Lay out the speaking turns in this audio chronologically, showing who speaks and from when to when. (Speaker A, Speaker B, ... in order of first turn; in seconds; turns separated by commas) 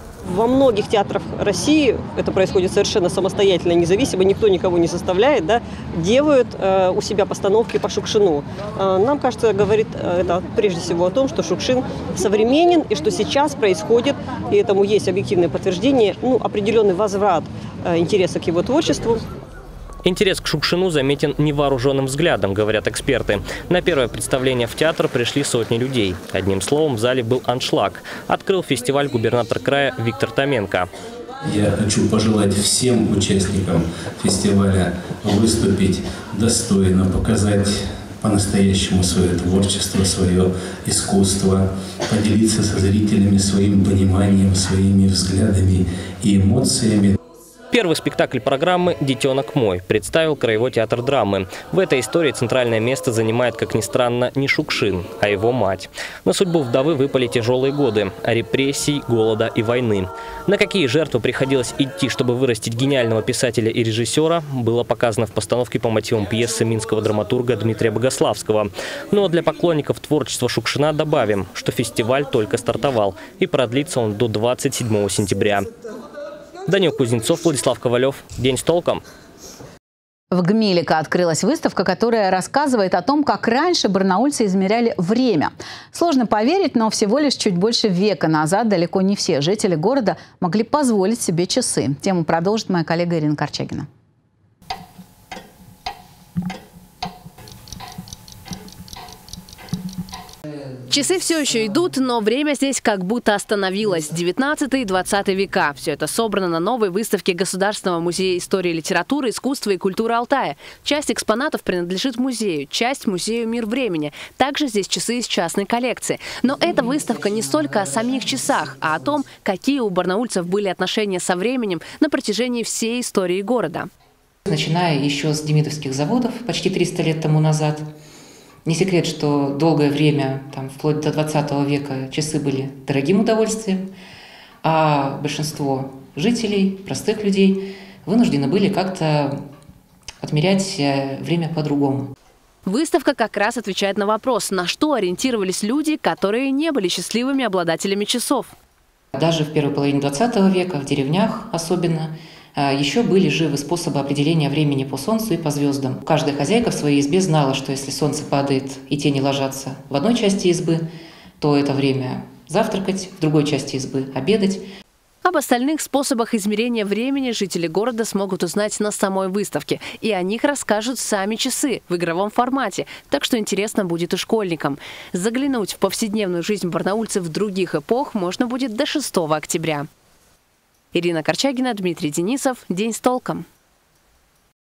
Speaker A: 0.3-19.2, Speaker B: 20.1-30.9, Speaker C: 31.4-47.2, Speaker B: 47.7-75.7, Speaker B: 76.7-79.0, Speaker D: 80.3-93.9, Speaker E: 100.9-123.9, Speaker F: 124.5-127.9, Speaker F: 128.7-133.9, Speaker F: 134.6-139.4, Speaker F: 140.2-142.1, Speaker E: 142.7-148.5, Speaker F: 149.2-160.9, Speaker F: 161.4-164.7, Speaker E: 165.2-179.9, Speaker E: 180.9-183.4